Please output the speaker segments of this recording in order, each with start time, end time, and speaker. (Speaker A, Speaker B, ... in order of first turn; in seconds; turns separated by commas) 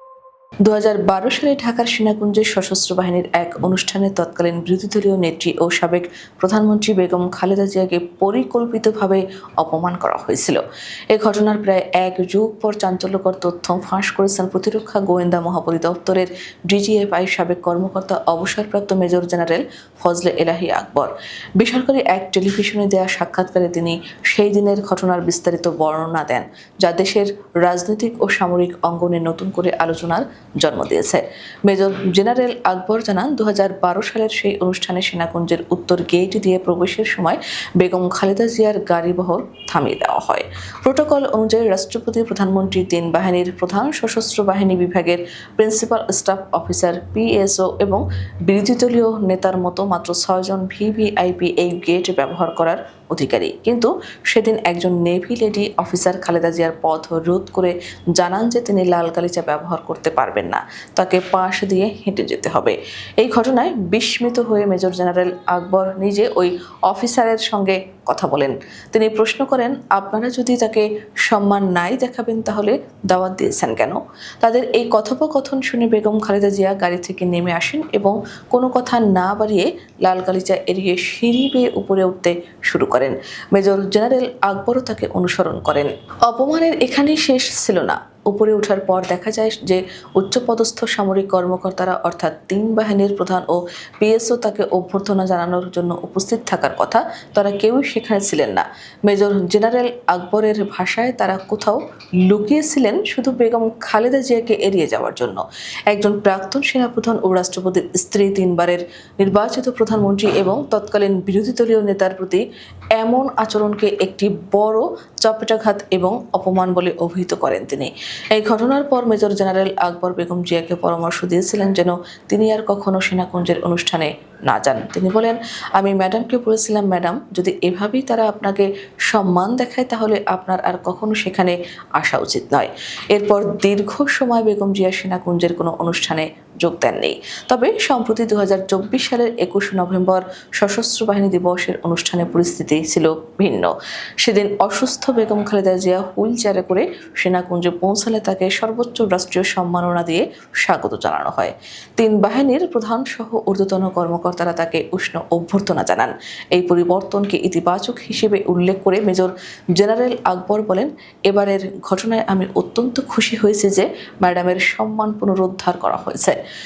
Speaker A: 0.6-10.6, Speaker A: 11.1-112.4, Speaker A: 113.0-166.4